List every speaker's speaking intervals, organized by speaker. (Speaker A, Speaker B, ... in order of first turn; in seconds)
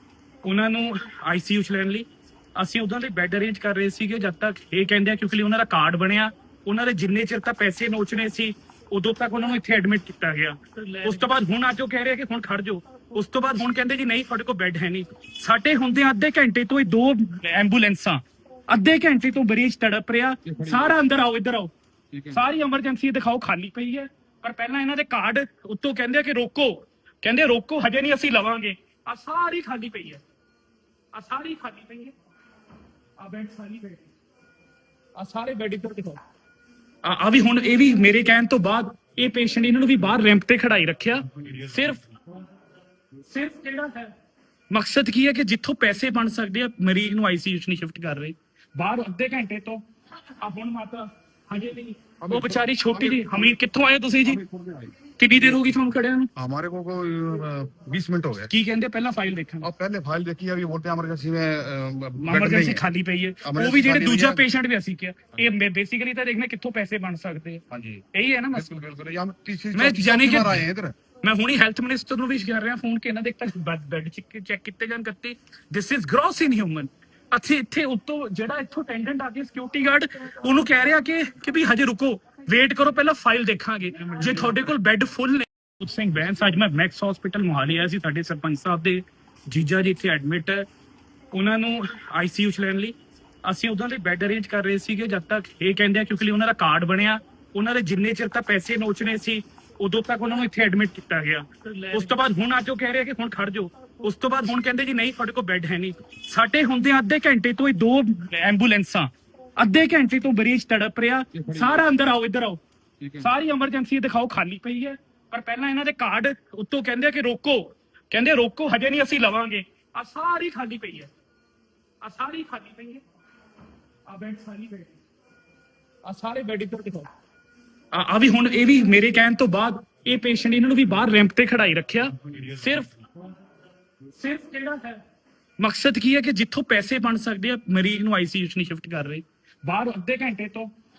Speaker A: 0.4-21.7, 22.3-30.2, 31.1-32.1, 33.2-34.1, 35.2-36.2, 37.0-42.1, 43.2-44.1, 44.7-54.4, 55.2-56.3, 58.5-59.7, 62.2-67.6, 68.1-68.7, 69.7-70.6, 71.2-90.7, 91.3-112.6, 113.2-121.1, 122.0-123.0, 124.1-124.9, 126.0-127.1, 127.9-133.0, 134.1-135.0, 135.6-140.7
Speaker B: 20.5-21.0, 22.1-22.4, 52.2-53.6, 54.2-55.7, 56.4-58.5, 59.6-62.9, 63.4-64.5, 67.7-70.9, 111.3-111.8, 113.0-113.3